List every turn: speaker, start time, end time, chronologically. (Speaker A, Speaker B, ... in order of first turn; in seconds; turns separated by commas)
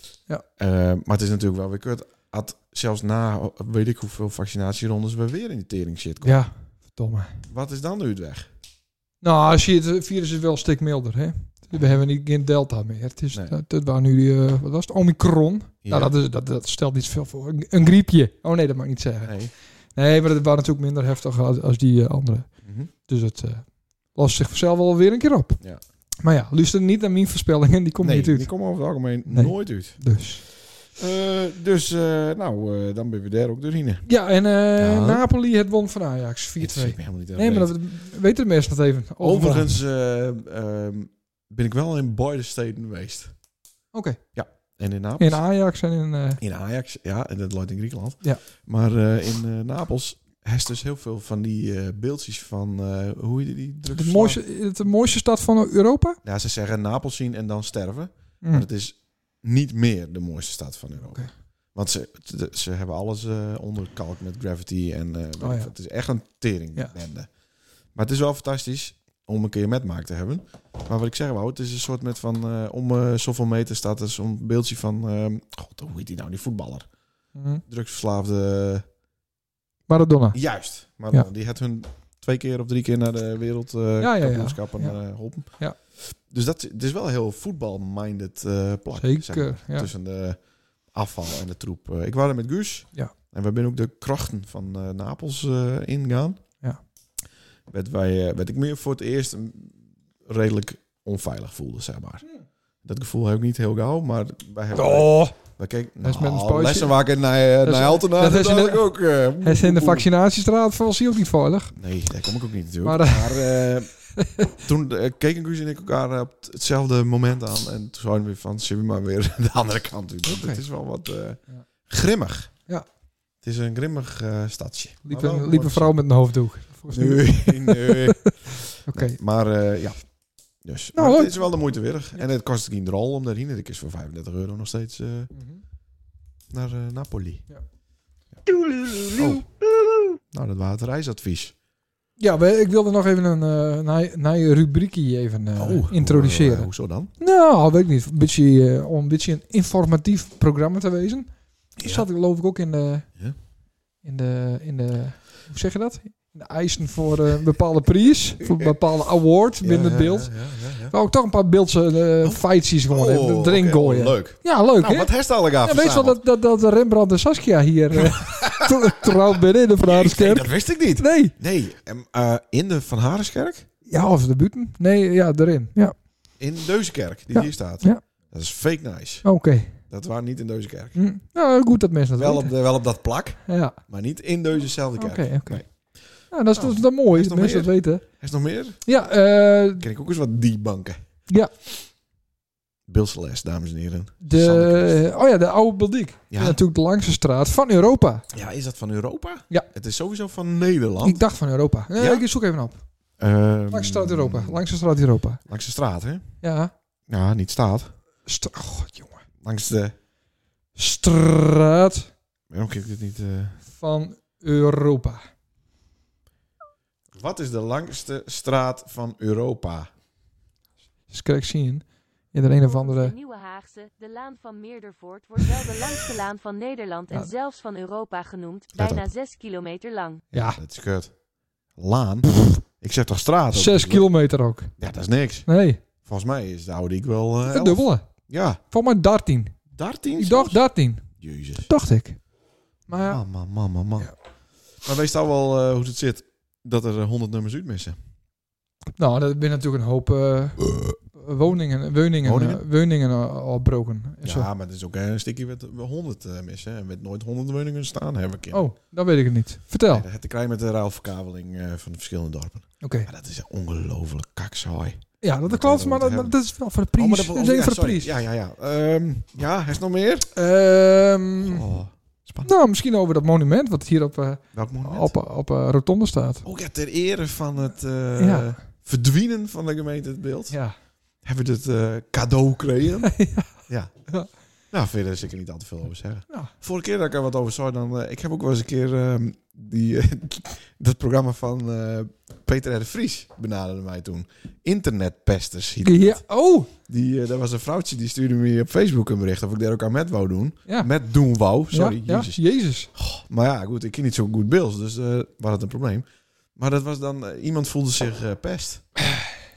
Speaker A: 0.6-6.4, Speaker B: 6.2-7.4, Speaker A: 7.5-8.5, Speaker B: 9.2-19.3, Speaker A: 15.8-16.1, Speaker A: 19.2-19.5, Speaker B: 19.9-22.5, Speaker A: 22.6-22.9, Speaker B: 23.0-25.6, Speaker B: 26.2-28.5, Speaker A: 28.0-30.0, Speaker B: 29.2-30.4, Speaker A: 30.9-34.0, Speaker B: 34.0-39.7, Speaker A: 34.8-35.2, Speaker A: 36.6-37.8, Speaker A: 39.2-43.3, Speaker B: 43.9-44.2, Speaker A: 44.3-45.4, Speaker B: 45.2-46.4, Speaker A: 46.4-54.4, Speaker B: 53.9-56.2, Speaker A: 56.2-61.2, Speaker B: 61.0-61.3, Speaker A: 61.7-67.3, Speaker B: 65.4-65.7, Speaker A: 67.9-76.9, Speaker B: 77.3-77.6, Speaker A: 77.7-78.8, Speaker B: 79.9-80.4, Speaker A: 80.3-90.4, Speaker B: 84.0-85.0, Speaker B: 89.0-89.9, Speaker A: 90.9-96.4, Speaker A: 97.7-102.2, Speaker A: 102.8-110.1, Speaker B: 104.7-105.3, Speaker B: 106.0-106.9, Speaker B: 107.6-111.7, Speaker A: 111.8-113.9, Speaker B: 112.8-114.5, Speaker A: 114.6-122.5, Speaker B: 120.2-120.6, Speaker A: 123.4-126.0, Speaker B: 125.1-129.2, Speaker A: 126.9-130.0, Speaker A: 130.6-135.3, Speaker B: 130.9-131.4, Speaker B: 135.3-135.6, Speaker A: 136.5-137.5, Speaker A: 139.1-139.4, Speaker A: 140.3-141.5, Speaker B: 142.2-153.1, Speaker A: 145.6-147.1, Speaker A: 151.8-152.1, Speaker B: 154.0-160.3, Speaker A: 159.6-160.9, Speaker B: 160.9-171.3, Speaker A: 162.2-166.2, Speaker A: 167.9-173.7, Speaker B: 173.9-175.9, Speaker A: 176.4-179.3, Speaker B: 177.3-178.0, Speaker B: 179.2-179.8, Speaker A: 179.9-181.0, Speaker B: 180.9-182.5, Speaker A: 182.2-185.7, Speaker B: 183.4-183.8, Speaker B: 185.0-185.6, Speaker B: 186.3-188.1, Speaker A: 186.5-188.8, Speaker B: 188.8-189.8, Speaker A: 189.8-191.0, Speaker A: 192.9-195.0, Speaker B: 194.2-198.2, Speaker A: 196.3-196.6, Speaker A: 198.3-201.2, Speaker B: 201.0-202.8, Speaker A: 201.9-202.2, Speaker A: 203.2-204.6, Speaker B: 203.7-205.4, Speaker A: 205.4-206.3, Speaker B: 206.4-206.7, Speaker A: 207.1-207.9, Speaker B: 208.2-209.2, Speaker A: 209.4-209.9, Speaker B: 210.8-212.1, Speaker A: 212.5-213.6, Speaker B: 213.7-215.2, Speaker A: 217.1-219.9, Speaker B: 221.1-223.2, Speaker C: 222.7-230.2, Speaker A: 228.7-229.1, Speaker A: 230.3-231.1, Speaker B: 230.3-230.6, Speaker A: 231.8-234.1, Speaker B: 233.5-234.7, Speaker A: 234.8-235.5, Speaker B: 235.4-235.8, Speaker A: 236.0-238.6, Speaker B: 237.4-238.1, Speaker B: 238.7-239.6, Speaker A: 239.7-241.7, Speaker B: 240.2-241.1, Speaker B: 241.6-242.2, Speaker B: 242.9-243.2, Speaker A: 242.9-244.1, Speaker A: 244.8-248.0, Speaker B: 249.0-254.5, Speaker A: 252.2-252.6, Speaker A: 254.2-258.6, Speaker B: 258.5-260.1, Speaker A: 259.9-266.4, Speaker B: 262.8-263.1, Speaker B: 265.2-268.1, Speaker A: 266.9-270.3, Speaker B: 270.3-271.6, Speaker A: 271.4-272.5, Speaker B: 272.4-276.4, Speaker A: 274.5-275.1, Speaker A: 276.4-280.6, Speaker B: 278.2-278.5, Speaker A: 281.2-284.1, Speaker B: 283.1-283.5, Speaker A: 284.7-296.2, Speaker B: 295.8-296.7, Speaker A: 296.9-302.4, Speaker B: 301.7-302.9, Speaker A: 302.9-309.1